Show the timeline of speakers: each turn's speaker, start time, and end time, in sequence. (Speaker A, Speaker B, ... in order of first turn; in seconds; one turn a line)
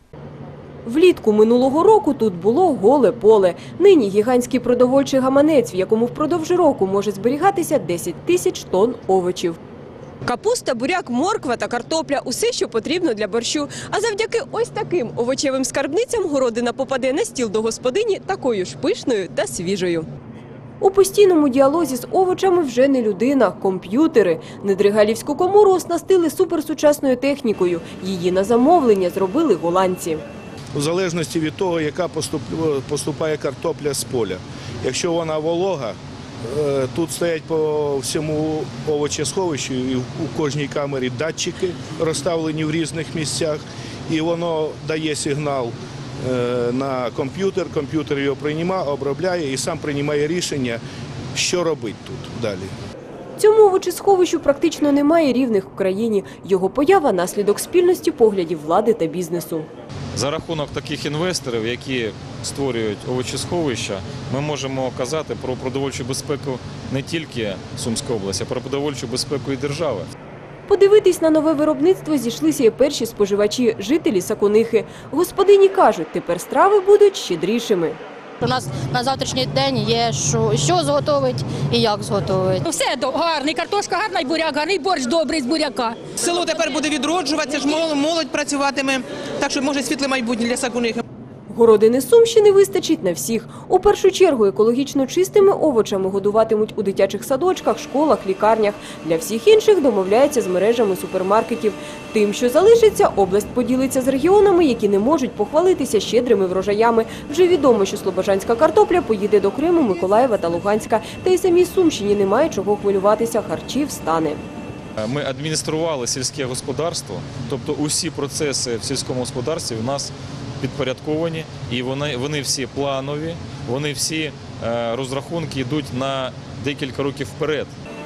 Speaker A: 0.8-9.6
Speaker A: 10.2-20.1
Speaker A: 20.8-30.2
Speaker B: 30.8-50.8
Speaker B: 51.3-52.7
Speaker A: 53.4-59.7
Speaker C: 60.1-70.1
Speaker A: 70.7-78.0
Speaker D: 78.4-82.6
Speaker E: 82.6-86.0
Speaker F: 86.2-91.0
Speaker A: 91.5-114.5
Speaker C: 115.0-127.7